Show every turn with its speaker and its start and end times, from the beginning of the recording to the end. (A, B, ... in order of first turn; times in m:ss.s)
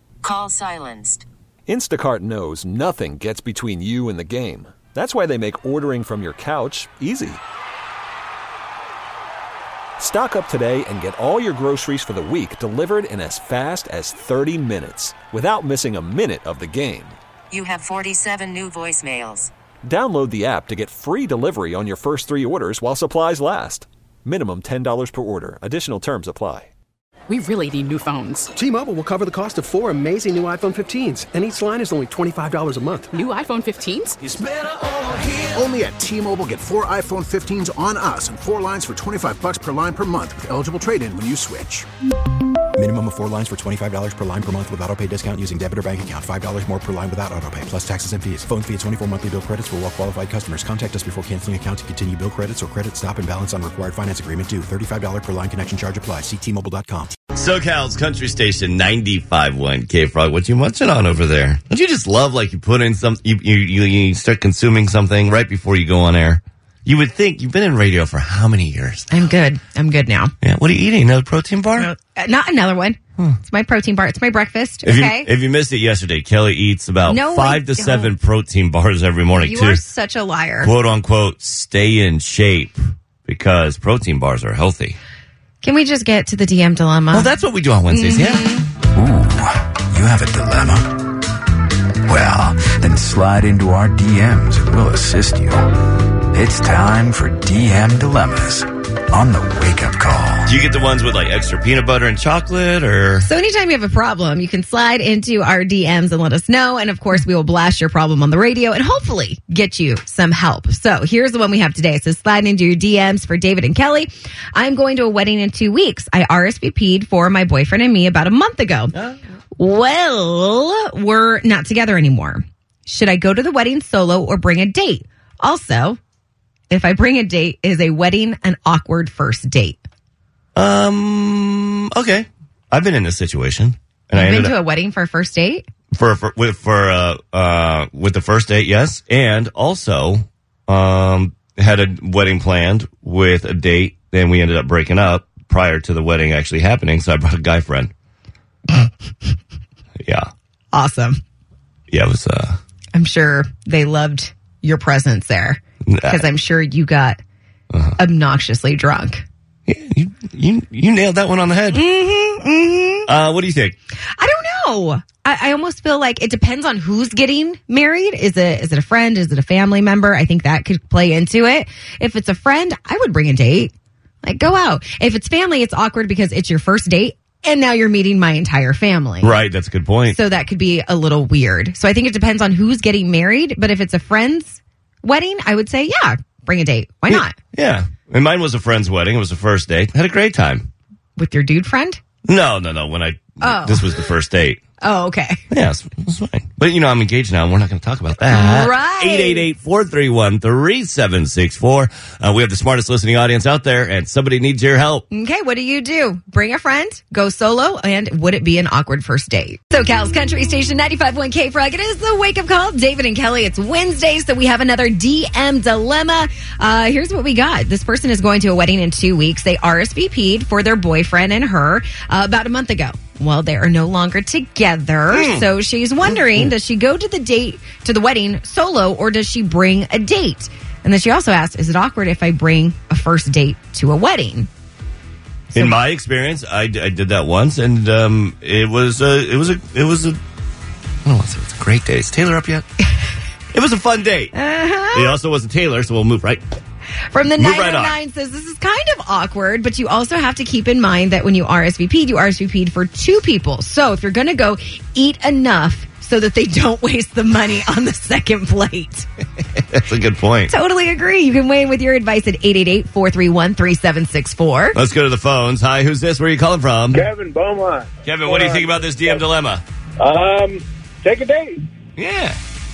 0:00.2-0:01.2 A
0:01.7-0:07.4 B
0:10.0-0:17.2 B
0:17.5-0:19.5 A
0:19.8-0:26.7 B
0:27.3-0:28.5 C
0:28.5-0:33.2 D
0:33.1-0:34.2 C
0:34.2-0:41.8 E
0:42.8-0:57.2 F
0:57.3-1:09.2 G
1:09.1-1:10.3 H
1:10.4-1:11.9 G
1:11.8-1:15.3 H
1:14.8-1:19.8 G
1:17.1-1:18.1 H
1:19.4-1:20.7 H
1:20.6-1:25.0 G
1:25.6-1:27.3 H
1:27.1-1:28.4 G
1:27.9-1:28.7 H
1:28.9-1:31.1 I
1:32.0-1:40.5 I
1:40.4-1:43.3 G
1:43.2-1:58.9 H
1:59.6-2:06.0 H
2:06.7-2:09.8 H
2:10.5-2:14.5 G
2:14.1-2:15.6 H
2:15.9-2:27.9 G
2:30.7-2:31.2 H
2:31.9-2:32.6 G
2:32.9-2:37.2 H
2:35.9-2:36.2 G
2:37.7-2:38.0 G
2:38.0-2:39.2 H
2:39.7-2:41.8 G
2:41.7-2:43.1 H
2:43.1-2:43.8 G
2:44.2-2:53.7 H
2:54.2-2:59.4 H
2:59.2-3:00.2 G
3:00.1-3:07.3 H
3:07.1-3:10.7 G
3:11.2-3:12.0 H
3:12.2-3:14.6 G
3:13.4-3:13.9 H
3:14.8-3:15.4 H
3:15.5-3:25.0 G
3:18.3-3:19.5 H
3:25.1-3:54.5 H
3:45.1-3:45.5 G
3:46.1-3:46.5 G
3:55.5-4:00.2 G
4:01.0-4:02.7 G
4:03.5-4:04.3 G
4:04.3-4:05.2 H
4:04.9-4:06.4 G
4:07.1-4:19.1 H
4:07.4-4:08.0 G
4:19.6-4:20.5 G
4:20.5-4:24.8 H
4:24.7-4:27.0 G
4:26.9-4:29.2 J
4:28.0-4:29.6 G
4:30.0-4:31.6 J
4:32.0-4:32.4 G